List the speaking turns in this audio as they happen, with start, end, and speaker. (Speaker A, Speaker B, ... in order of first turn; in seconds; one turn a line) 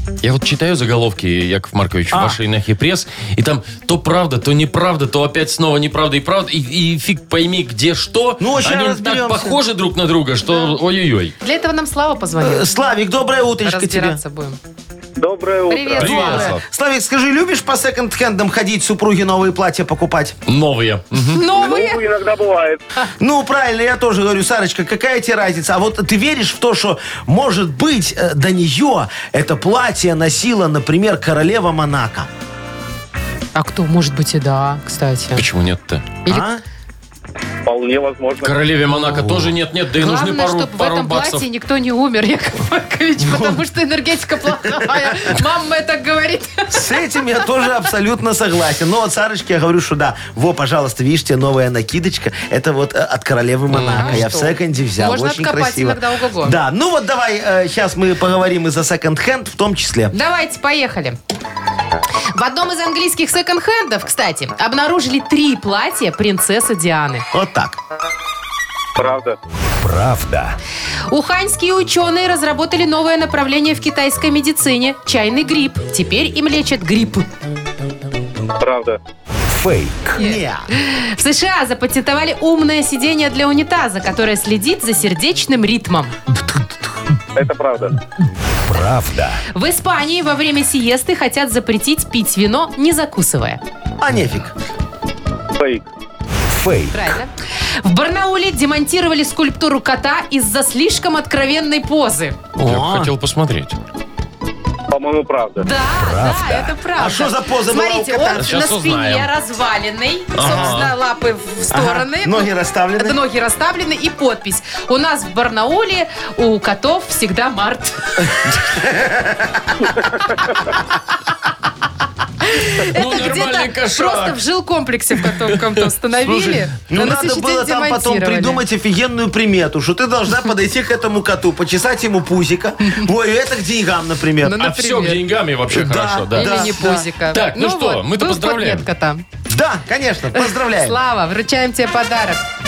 Speaker A: 0.2-11.3
Speaker B: 2.1-2.4
Speaker B: 8.4-9.6
Speaker C: 11.4-12.7
Speaker B: 12.4-14.2
Speaker C: 13.6-14.6
Speaker D: 15.2-16.1
Speaker C: 15.7-16.5
Speaker A: 16.0-16.6
Speaker B: 16.0-20.4
Speaker A: 20.5-21.4
Speaker C: 21.2-22.0
Speaker D: 21.5-22.8
Speaker B: 23.2-32.3
Speaker C: 33.5-35.4
Speaker A: 35.4-36.1
Speaker B: 36.3-36.6
Speaker D: 37.6-38.6
Speaker A: 38.4-41.4
Speaker C: 40.0-46.9
Speaker B: 43.2-43.6
Speaker B: 45.0-45.4
Speaker B: 46.7-60.1
Speaker A: 53.7-54.2
Speaker C: 53.8-56.6
Speaker C: 60.1-61.2
Speaker C: 62.3-67.3
Speaker B: 67.3-67.8
Speaker D: 68.9-69.3
Speaker E: 69.8-70.6
Speaker C: 71.1-77.3
Speaker D: 78.6-79.0
Speaker E: 79.5-80.2
Speaker C: 80.2-86.2
Speaker B: 80.2-80.7
Speaker D: 87.3-87.9
Speaker E: 88.6-89.4
Speaker C: 89.5-93.6
Speaker B: 94.0-94.5
Speaker D: 95.6-95.8
Speaker E: 96.5-97.2
Speaker C: 96.9-102.4
Speaker A: 102.6-103.8
Speaker B: 102.6-103.1
Speaker D: 104.9-105.6
Speaker C: 105.6-118.3
Speaker E: 105.9-106.8
Speaker B: 107.0-108.5
Speaker A: 108.4-109.3
Speaker A: 110.3-110.9
Speaker B: 110.4-110.8
Speaker B: 111.7-113.2
Speaker B: 118.7-119.9
Speaker C: 122.4-128.6
Speaker A: 122.8-124.4
Speaker A: 126.2-126.6
Speaker B: 126.9-134.6
Speaker C: 134.4-135.2
Speaker A: 134.6-138.9
Speaker B: 135.7-137.1
Speaker C: 136.3-139.2
Speaker B: 139.5-141.0
Speaker C: 140.3-142.4